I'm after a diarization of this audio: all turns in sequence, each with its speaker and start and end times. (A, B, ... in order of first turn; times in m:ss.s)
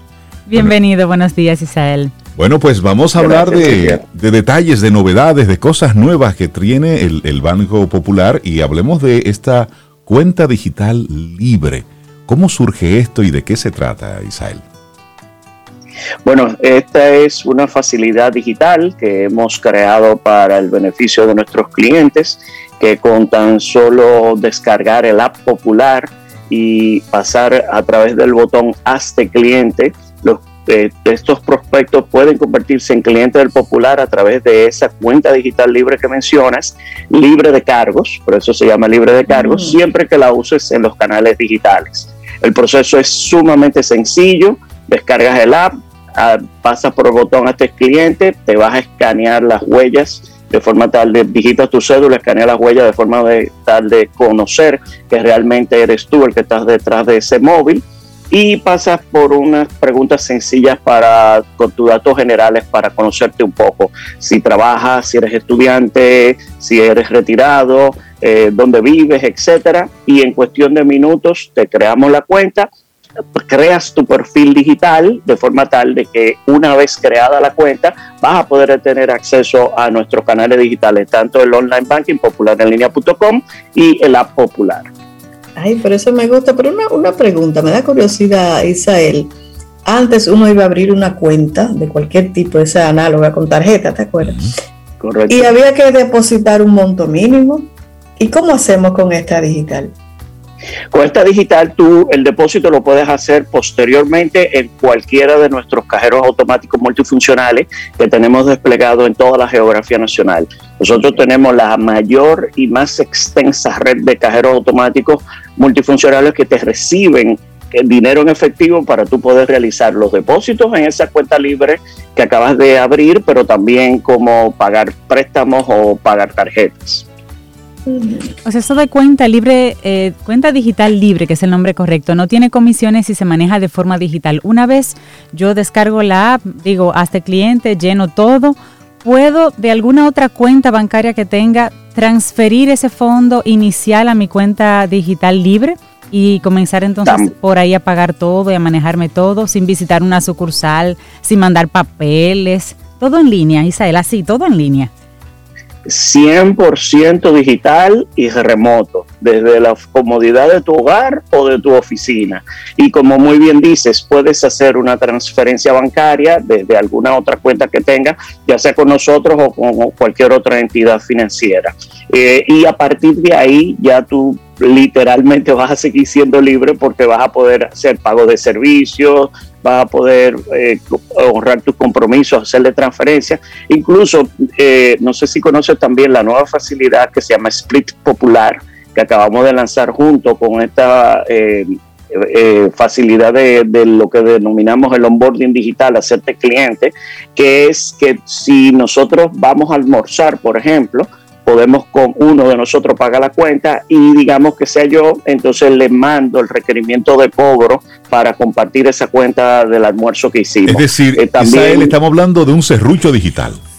0:00.5-0:02.1 A
0:02.4-0:14.6 B
0:03.2-0:04.0 C
0:16.2-1:12.7 C
0:39.3-0:39.8 D
1:13.4-1:24.9 C
1:25.6-1:29.3 D
1:29.8-1:34.5 D
1:34.2-1:34.6 B
1:35.0-1:35.5 C
1:35.3-1:39.9 D
1:40.9-2:07.0 C
2:07.9-2:08.3 D
2:08.4-2:34.9 A
2:27.0-2:27.3 C
2:35.9-3:32.0 C
3:30.7-3:33.6 B